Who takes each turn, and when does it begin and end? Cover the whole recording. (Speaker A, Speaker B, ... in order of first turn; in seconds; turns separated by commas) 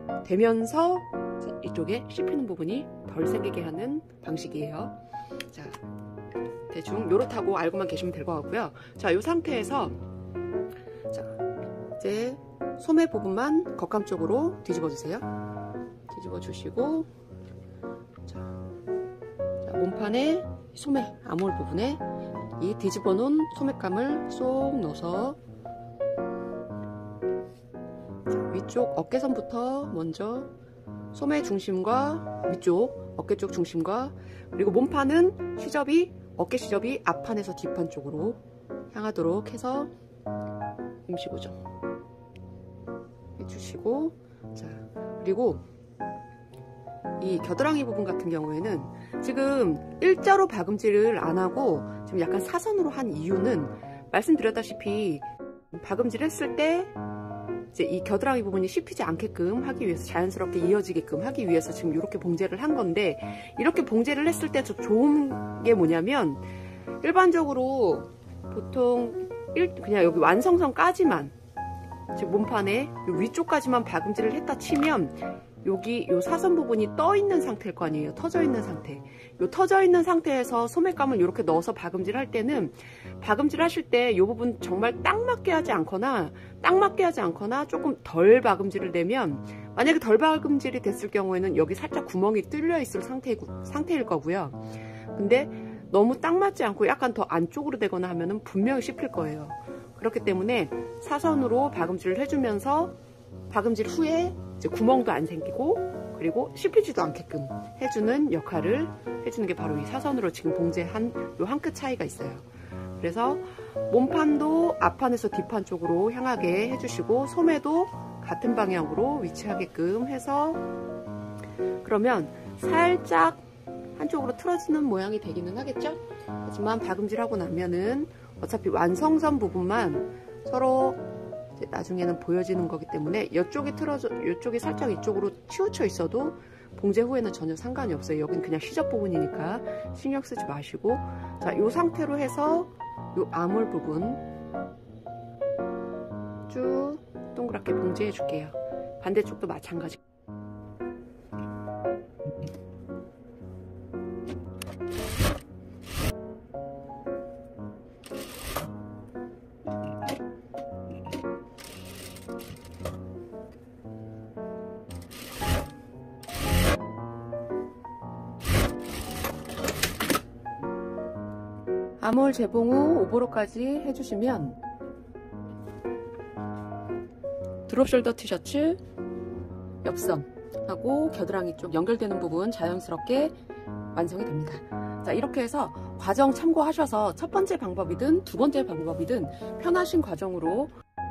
Speaker A: 0.2-5.0, Speaker A: 5.5-5.8, Speaker A: 6.7-10.0, Speaker A: 11.1-11.3, Speaker A: 12.0-15.3, Speaker A: 16.1-17.1, Speaker A: 18.3-18.5, Speaker A: 19.6-22.0, Speaker A: 22.6-25.4, Speaker A: 28.3-30.5, Speaker A: 31.1-38.4, Speaker A: 38.9-39.9, Speaker A: 41.1-41.6, Speaker A: 43.4-45.6, Speaker A: 47.2-56.9, Speaker A: 57.7-66.5, Speaker A: 67.0-71.3, Speaker A: 72.1-103.0, Speaker A: 103.5-120.6, Speaker A: 121.8-131.0, Speaker A: 131.6-144.2, Speaker A: 146.5-150.0, Speaker A: 172.0-174.6, Speaker A: 177.7-178.8, Speaker A: 179.8-183.4, Speaker A: 183.9-190.7